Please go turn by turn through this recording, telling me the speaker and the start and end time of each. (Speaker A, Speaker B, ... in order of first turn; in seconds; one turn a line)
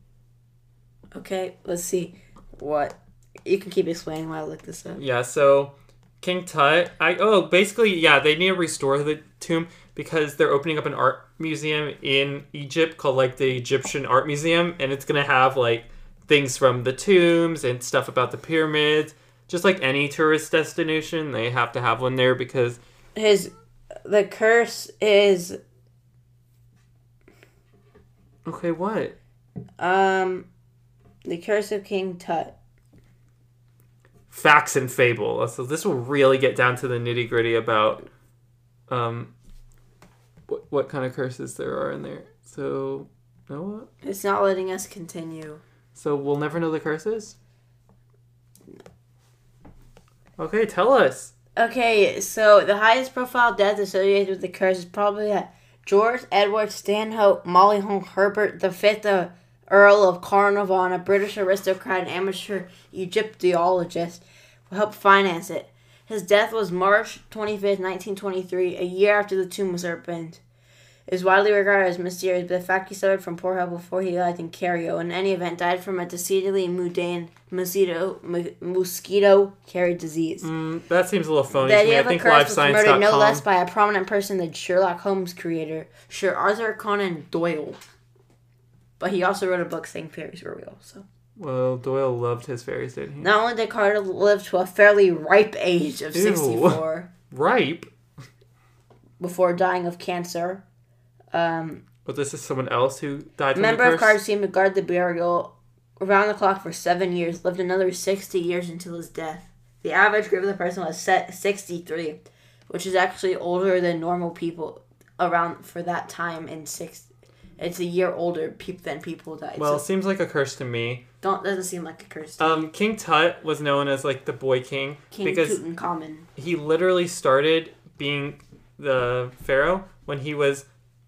Speaker A: 1.1-5.0
Speaker B: 5.0-22.8
Speaker A: 23.2-23.5
Speaker A: 24.1-25.6
Speaker B: 28.4-29.1
Speaker A: 29.8-30.5
Speaker A: 31.2-32.5
Speaker B: 34.3-38.1
Speaker B: 38.9-39.3
Speaker B: 40.5-43.9
Speaker A: 44.0-45.6
Speaker B: 46.0-47.4
Speaker B: 50.4-51.3
Speaker A: 51.6-70.4
Speaker A: 71.1-80.5
Speaker B: 80.4-83.5
Speaker A: 81.6-87.8
Speaker A: 89.0-91.0
Speaker B: 91.4-93.3
Speaker A: 93.2-97.1
Speaker B: 96.1-97.9
Speaker A: 99.2-100.6
Speaker A: 101.3-101.8
Speaker B: 102.1-104.2
Speaker A: 103.5-117.1
Speaker A: 117.6-119.8
Speaker B: 119.6-121.0
Speaker A: 121.2-122.7
Speaker B: 122.4-125.6
Speaker A: 125.1-126.3
Speaker B: 126.4-130.7